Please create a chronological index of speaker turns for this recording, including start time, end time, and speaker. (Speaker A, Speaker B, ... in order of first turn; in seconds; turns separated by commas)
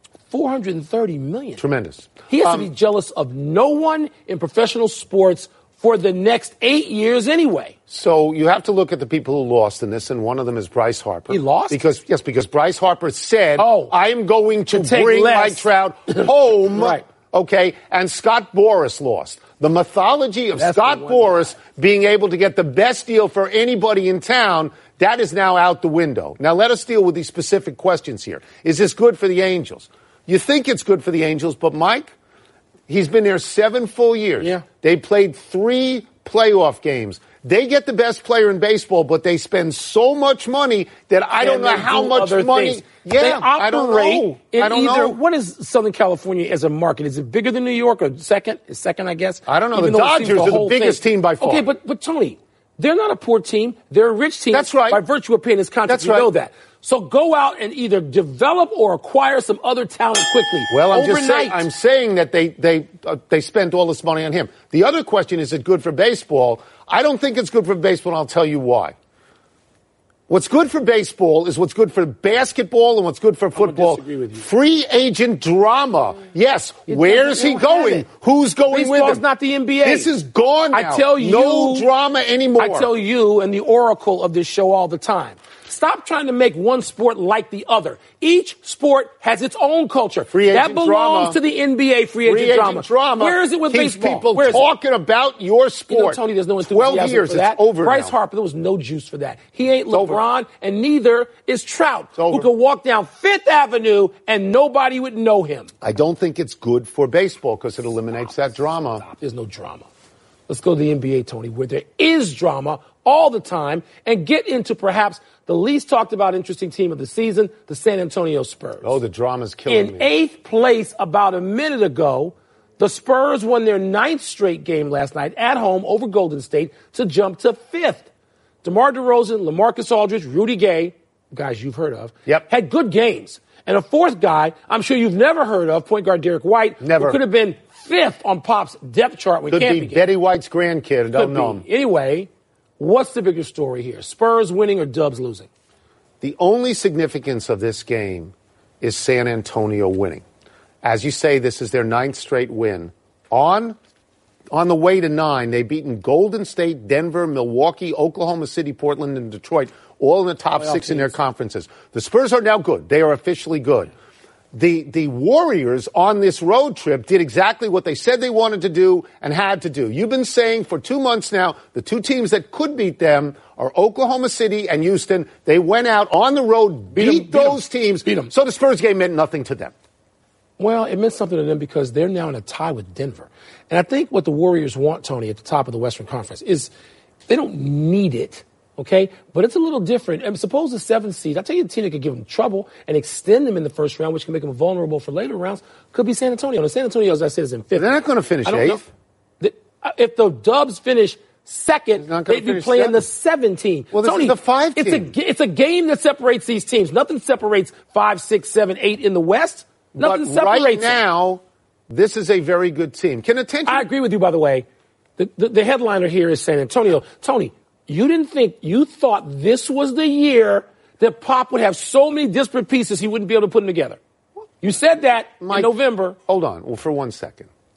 Speaker A: 0.3-1.6, Speaker B: 1.6-2.7, Speaker A: 2.3-7.8, Speaker B: 7.9-32.1, Speaker A: 11.3-11.8, Speaker A: 13.6-13.9, Speaker A: 14.7-17.0, Speaker A: 20.6-21.6, Speaker B: 32.9-45.2, Speaker A: 34.4-34.6, Speaker A: 41.4-61.6, Speaker B: 49.5-51.6, Speaker B: 54.5-55.0, Speaker B: 55.9-56.3, Speaker B: 60.7-69.0, Speaker B: 70.3-79.2, Speaker A: 73.5-74.5, Speaker A: 76.9-78.1, Speaker A: 78.7-80.1, Speaker B: 79.8-82.9, Speaker A: 80.7-81.9, Speaker A: 82.6-94.7, Speaker B: 90.3-91.4, Speaker B: 92.2-98.1, Speaker A: 95.9-105.7, Speaker B: 99.9-100.2, Speaker B: 102.2-102.5, Speaker B: 105.8-109.0, Speaker A: 109.0-109.9, Speaker A: 110.5-119.0, Speaker B: 118.8-120.1, Speaker A: 119.7-128.1, Speaker A: 128.6-140.1, Speaker B: 136.8-137.2, Speaker B: 139.5-141.7, Speaker A: 141.1-145.5, Speaker B: 146.2-150.2, Speaker B: 150.8-153.8, Speaker B: 154.5-163.9, Speaker A: 160.6-161.2, Speaker B: 164.5-179.7, Speaker A: 176.9-178.3, Speaker A: 180.6-186.7, Speaker A: 187.3-198.8, Speaker B: 197.8-198.9, Speaker A: 199.4-211.0, Speaker B: 202.0-203.1, Speaker B: 203.9-205.1, Speaker B: 209.9-213.9, Speaker A: 213.7-214.7, Speaker A: 215.2-224.0, Speaker A: 224.6-226.2, Speaker B: 225.4-227.5